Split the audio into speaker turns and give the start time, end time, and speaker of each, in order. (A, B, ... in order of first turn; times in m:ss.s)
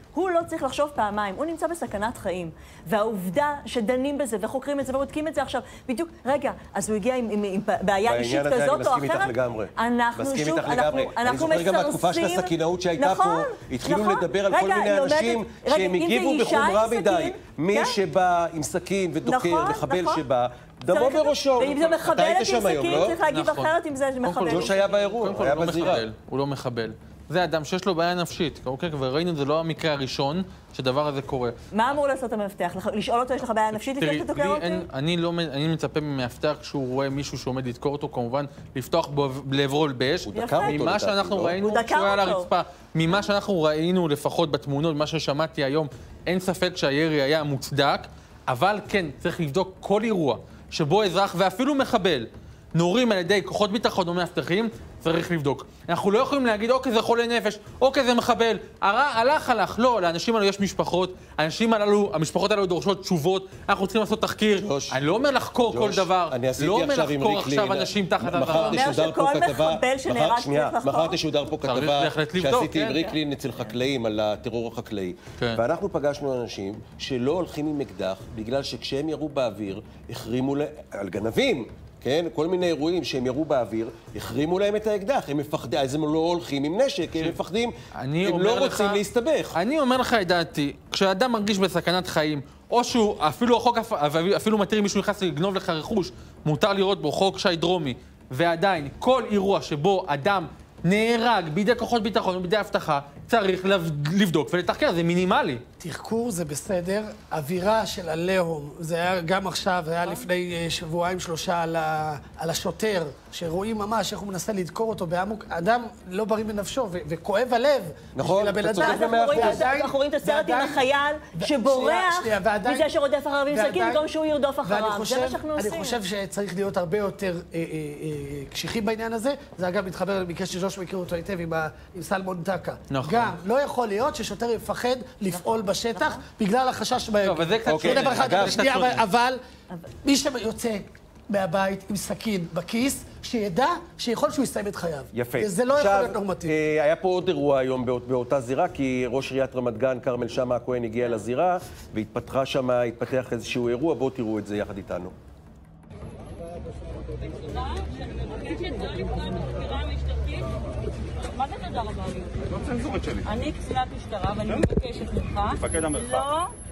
0:00.1-0:18.0 A
0:08.1-0:23.2 B
0:19.2-0:20.2 A
0:20.9-0:25.5 A
0:22.9-0:31.5 C
0:24.4-0:26.0 B
0:31.7-0:34.8 A
0:33.7-1:08.9 C
0:40.3-0:41.6 B
0:40.3-0:40.8 A
0:41.6-0:42.5 A
1:04.6-1:05.0 B
1:05.7-1:29.6 B
1:08.6-1:11.2 A
1:11.7-1:13.0 C
1:28.0-1:29.0 C
1:29.6-1:45.6 C
1:45.8-2:00.8 D
1:58.2-1:59.7 B
1:58.8-2:06.0 A
2:01.4-2:02.9 D
2:03.5-2:04.0 D
2:04.6-2:19.4 D
2:12.9-2:13.4 C
2:15.3-2:16.2 A
2:17.2-2:19.0 C
2:17.7-2:18.6 B
2:20.0-2:26.6 D
2:25.1-2:35.1 B
2:37.3-2:40.5 E
2:41.2-2:42.4 E
2:43.2-2:46.5 E